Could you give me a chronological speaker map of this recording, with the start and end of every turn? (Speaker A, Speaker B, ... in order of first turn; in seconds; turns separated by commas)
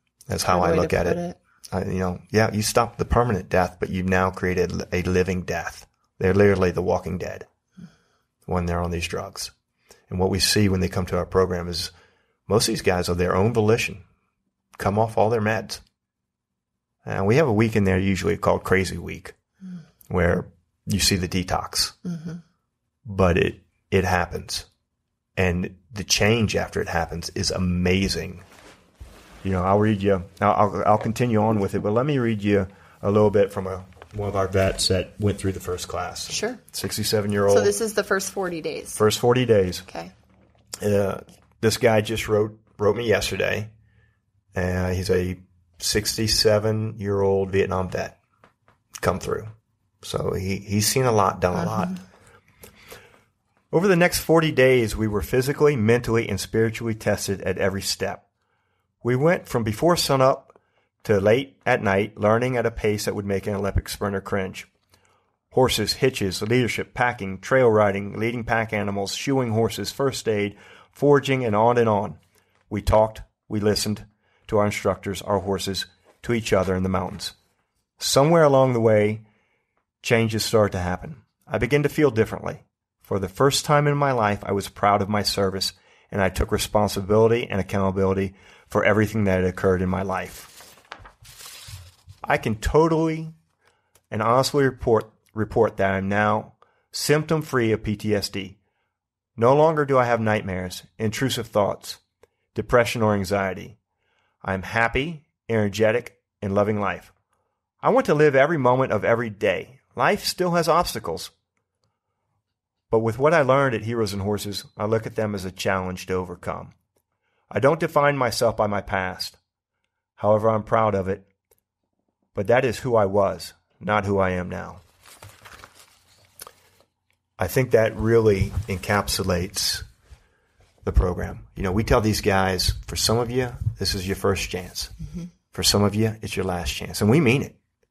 Speaker A: 0.3-7.5, Speaker B: 0.5-1.4, Speaker A: 8.5-9.5, Speaker A: 10.1-11.9, Speaker A: 12.5-14.0, Speaker A: 14.8-15.8, Speaker A: 17.1-19.4, Speaker A: 20.1-22.0, Speaker A: 23.1-24.7, Speaker A: 25.4-28.4, Speaker A: 29.4-37.7, Speaker B: 36.3-36.6, Speaker B: 37.5-39.0, Speaker A: 39.0-39.9, Speaker B: 39.9-40.1, Speaker A: 40.8-43.7, Speaker A: 44.5-48.2, Speaker A: 49.0-49.5, Speaker A: 50.0-52.0, Speaker B: 51.6-51.9, Speaker A: 53.7-58.2, Speaker A: 59.0-64.7, Speaker A: 65.5-72.2, Speaker A: 72.7-77.3, Speaker A: 78.0-79.2, Speaker A: 80.0-90.5, Speaker A: 92.2-93.3, Speaker A: 94.1-98.6, Speaker A: 99.4-102.0, Speaker A: 102.5-103.8, Speaker A: 104.4-107.1, Speaker A: 107.8-111.3, Speaker A: 112.9-116.7, Speaker A: 117.5-119.4, Speaker A: 120.2-121.3, Speaker A: 122.3-124.8, Speaker A: 127.4-129.8, Speaker A: 130.8-134.9, Speaker A: 135.5-137.6